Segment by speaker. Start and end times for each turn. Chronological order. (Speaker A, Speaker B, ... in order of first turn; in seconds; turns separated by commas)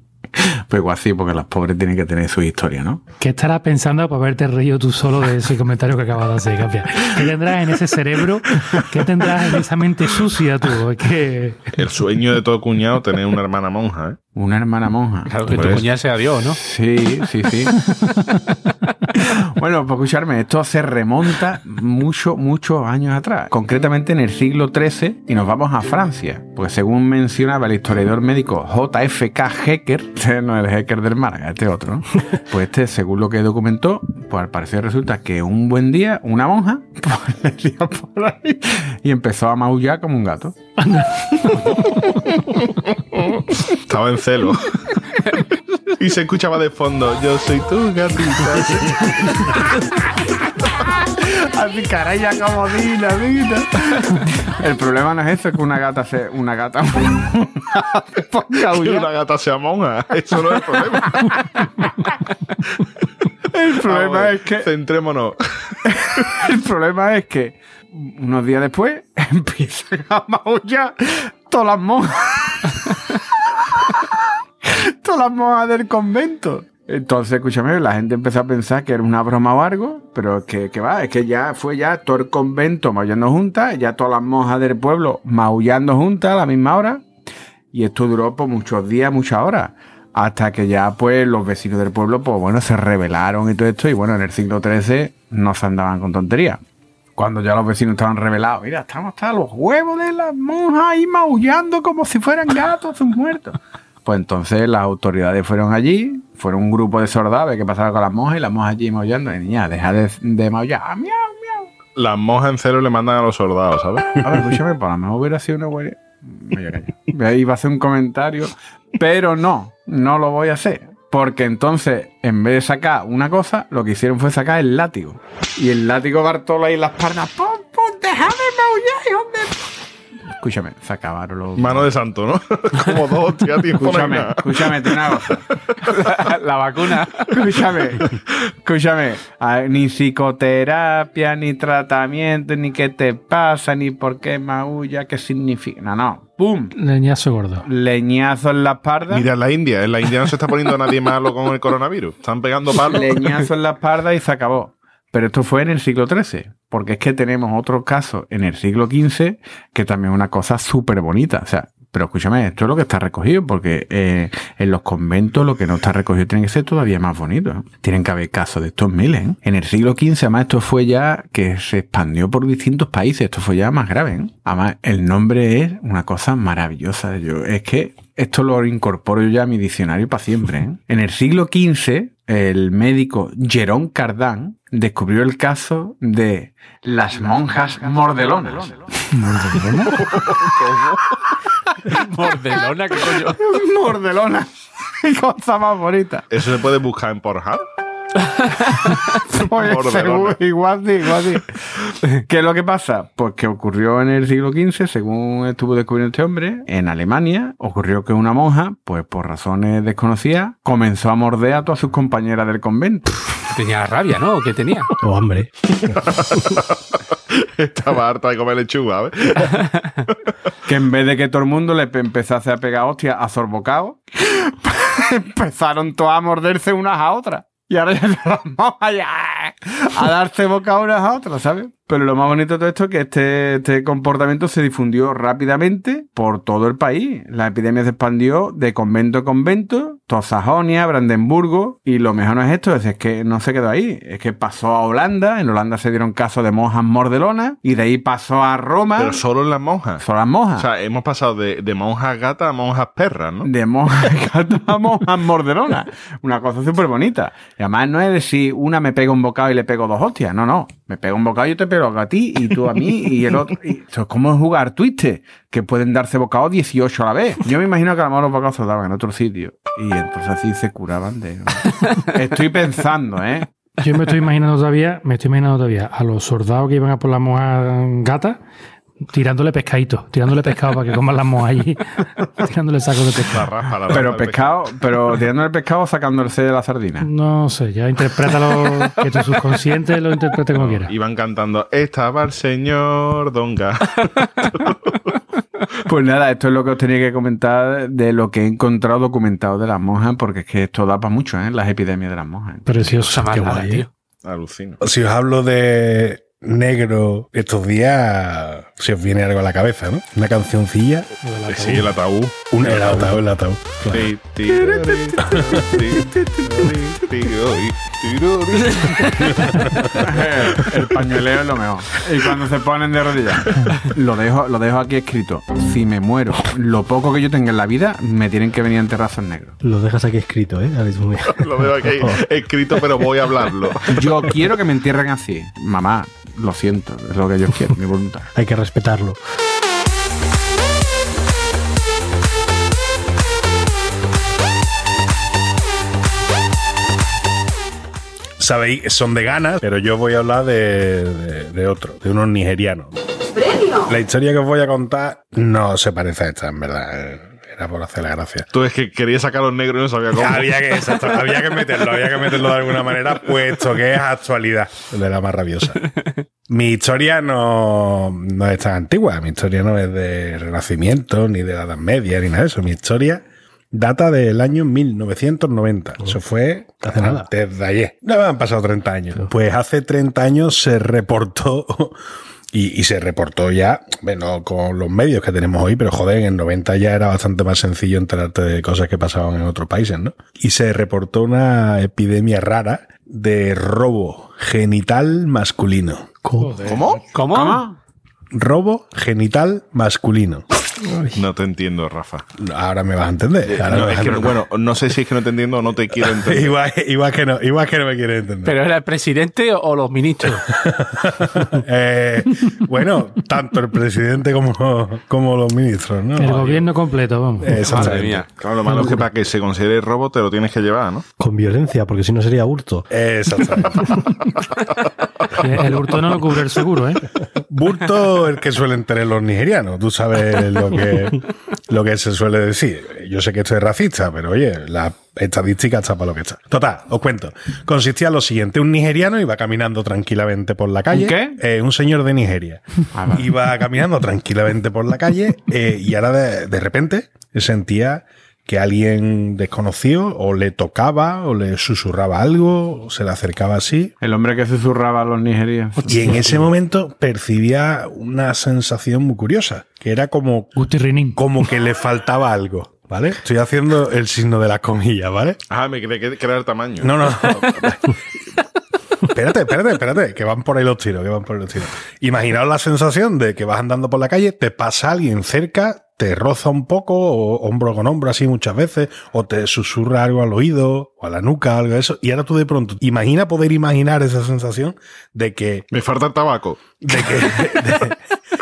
Speaker A: 0.4-3.0, Speaker B: 3.2-11.6, Speaker C: 11.7-14.2, Speaker A: 14.3-15.3, Speaker D: 15.2-16.6, Speaker C: 15.4-15.8, Speaker A: 16.6-17.8, Speaker A: 19.1-40.5, Speaker C: 43.6-44.9, Speaker C: 46.0-49.4, Speaker A: 51.1-59.1, Speaker C: 58.7-61.4, Speaker A: 63.5-64.7, Speaker C: 63.8-66.3, Speaker A: 66.2-72.7, Speaker A: 74.6-87.0, Speaker A: 87.7-96.6, Speaker A: 97.2-111.7, Speaker C: 112.0-114.2, Speaker A: 114.2-129.7, Speaker A: 130.4-131.9, Speaker C: 131.5-135.3, Speaker A: 133.7-135.4, Speaker D: 135.9-137.3, Speaker A: 137.3-146.7, Speaker B: 146.8-147.6, Speaker A: 147.6-149.2, Speaker C: 149.1-153.4, Speaker A: 152.8-189.9, Speaker B: 189.2-189.8, Speaker C: 190.0-191.0, Speaker D: 191.9-193.4, Speaker A: 193.1-196.2, Speaker C: 196.3-197.6, Speaker A: 199.3-201.5, Speaker C: 199.5-200.4, Speaker A: 202.3-213.4, Speaker D: 213.5-214.9, Speaker E: 215.0-216.5, Speaker C: 216.0-219.6, Speaker A: 220.7-249.2, Speaker C: 248.9-250.0, Speaker A: 250.0-250.7, Speaker C: 250.5-253.5, Speaker A: 253.4-273.5, Speaker B: 273.8-278.4, Speaker B: 279.1-283.5, Speaker C: 283.3-284.8, Speaker A: 283.9-287.1, Speaker B: 287.0-290.9, Speaker C: 290.5-294.9, Speaker A: 295.9-302.9, Speaker B: 302.7-303.3, Speaker D: 303.0-303.9, Speaker E: 303.2-303.8, Speaker C: 304.2-304.8, Speaker F: 304.8-311.1, Speaker B: 311.2-311.9, Speaker C: 311.5-313.1, Speaker F: 312.5-313.8, Speaker C: 313.9-319.2, Speaker A: 314.5-316.9, Speaker A: 320.0-329.6, Speaker E: 329.6-332.2, Speaker C: 331.3-334.0, Speaker A: 333.9-338.3, Speaker E: 338.3-339.2, Speaker F: 348.4-352.9, Speaker F: 353.8-358.4, Speaker C: 358.5-360.6, Speaker F: 360.1-365.8, Speaker F: 366.5-381.9, Speaker E: 376.8-377.3, Speaker F: 382.5-396.1, Speaker E: 396.2-396.6, Speaker B: 396.4-396.8, Speaker C: 396.6-397.0, Speaker A: 396.8-397.8, Speaker D: 397.1-397.6, Speaker F: 398.3-400.4, Speaker E: 400.8-401.2, Speaker C: 401.1-402.2, Speaker F: 402.4-404.4, Speaker C: 403.4-406.5, Speaker F: 405.9-408.5, Speaker D: 408.4-410.4, Speaker F: 410.5-416.6, Speaker B: 416.1-417.9, Speaker F: 417.4-418.2, Speaker C: 417.6-421.0, Speaker E: 417.7-418.2, Speaker E: 421.2-422.9, Speaker F: 422.9-424.0, Speaker B: 425.3-427.0, Speaker F: 427.4-453.9, Speaker A: 440.9-441.4, Speaker A: 442.9-443.3, Speaker A: 454.0-456.3, Speaker B: 455.9-456.4, Speaker F: 455.9-460.5, Speaker B: 460.6-461.3, Speaker F: 461.2-465.4, Speaker C: 465.5-467.4, Speaker F: 466.8-467.9, Speaker F: 469.1-485.6, Speaker C: 485.7-487.0, Speaker F: 486.8-488.0